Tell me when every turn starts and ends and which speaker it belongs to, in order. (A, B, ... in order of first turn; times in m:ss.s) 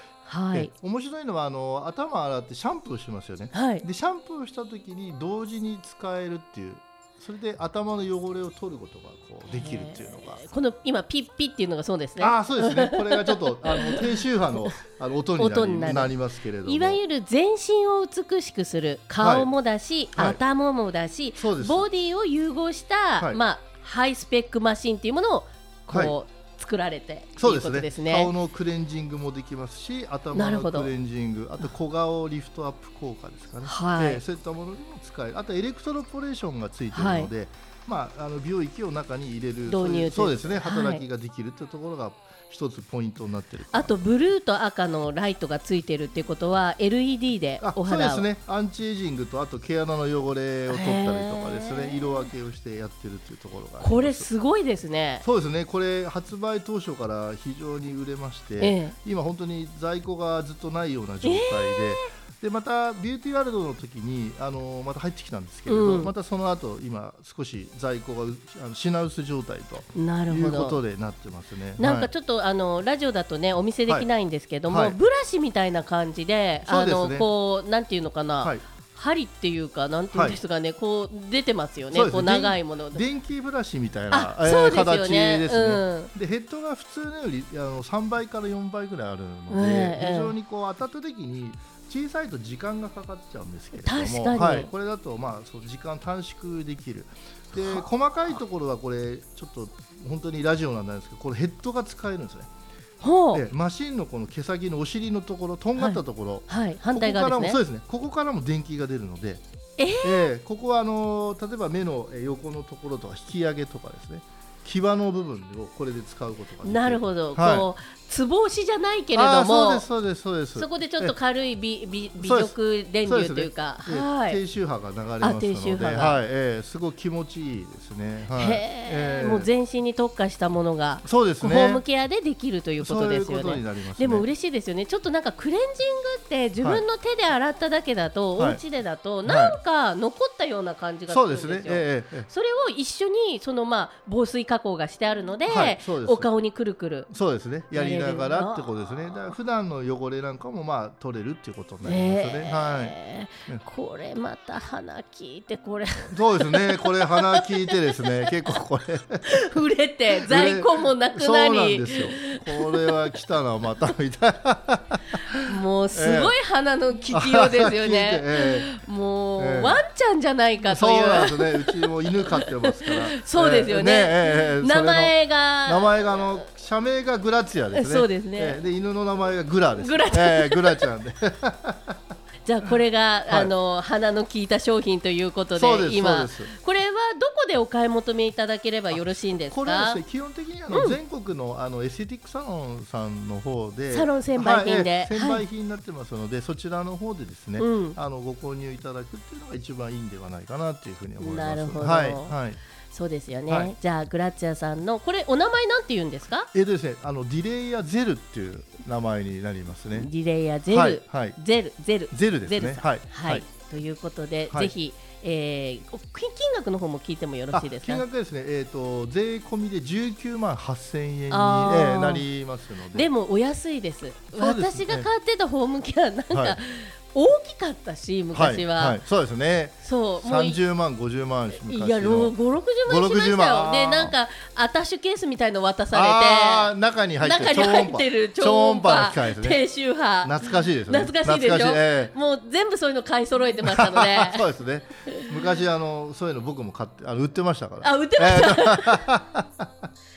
0:00.2-0:00.7 A
0:00.5-0:10.4 B
0:03.5-0:03.8 A
0:09.5-0:14.8 A
0:12.2-0:17.0 B
0:15.4-0:28.3 A
0:19.2-0:19.5 B
0:20.2-0:20.4 B
0:21.4-0:21.8 B
0:25.9-0:26.1 B
0:27.4-0:43.9 B
0:30.3-0:30.9 A
0:33.6-0:34.2 A
0:36.9-0:37.3 A
0:39.6-0:41.0 A
0:43.7-0:48.2 A
0:47.6-0:54.3 B
0:50.7-0:52.0 A
0:53.8-0:55.2 A
0:55.2-1:12.1 B
0:58.6-0:58.9 A
1:01.2-1:02.1 A
1:05.7-1:06.1 A
1:09.9-1:10.8 A
1:11.8-1:23.0 A
1:14.7-1:15.0 B
1:16.6-1:17.3 B
1:20.1-1:20.4 B
1:21.9-1:42.5 B
1:24.1-1:26.1 A
1:29.5-1:30.3 A
1:33.7-1:34.7 A
1:43.0-1:43.4 A
1:43.3-1:49.4 B
1:45.8-1:47.6 A
1:49.8-1:50.3 A
1:50.0-1:57.7 B
1:56.6-1:59.9 A
1:59.1-2:01.1 B
2:00.6-2:04.4 A
2:02.2-2:09.5 B
2:05.2-2:06.2 A
2:08.4-2:27.1 A
2:11.0-2:11.8 B
2:12.8-2:14.3 B
2:18.4-2:18.6 B
2:19.2-2:19.6 B
2:21.1-2:22.3 B
2:25.5-2:26.3 B
2:27.1-2:32.9 B
2:27.7-2:28.7 A
2:31.8-2:38.3 A
2:36.0-2:39.4 B
2:39.2-2:42.9 A
2:40.1-2:46.4 B
2:45.4-2:56.4 A
2:47.1-2:48.7 B
2:49.4-2:49.8 B
2:50.6-3:02.1 B
2:57.7-2:58.6 A
2:59.8-3:00.9 A
3:02.4-3:10.0 A
3:05.5-3:06.5 B
3:09.5-3:22.6 B
3:10.7-3:11.0 A
3:13.9-3:15.4 A
3:17.6-3:18.0 A
3:21.2-3:22.4 A
3:22.9-3:26.5 A
3:23.5-3:23.7 B
3:26.5-3:30.1 B
3:29.9-3:38.0 A
3:30.7-3:31.4 B
3:32.1-3:33.4 B
3:37.5-3:43.1 B
3:41.3-3:42.2 A
3:42.9-3:49.0 A
3:44.4-3:45.1 B
3:46.3-3:46.6 B
3:48.3-3:54.1 B
3:49.8-3:50.6 A
3:51.6-4:04.4 A
3:55.9-3:59.6 B
4:00.2-4:02.1 B
4:03.6-4:09.9 B
4:07.8-4:09.1 A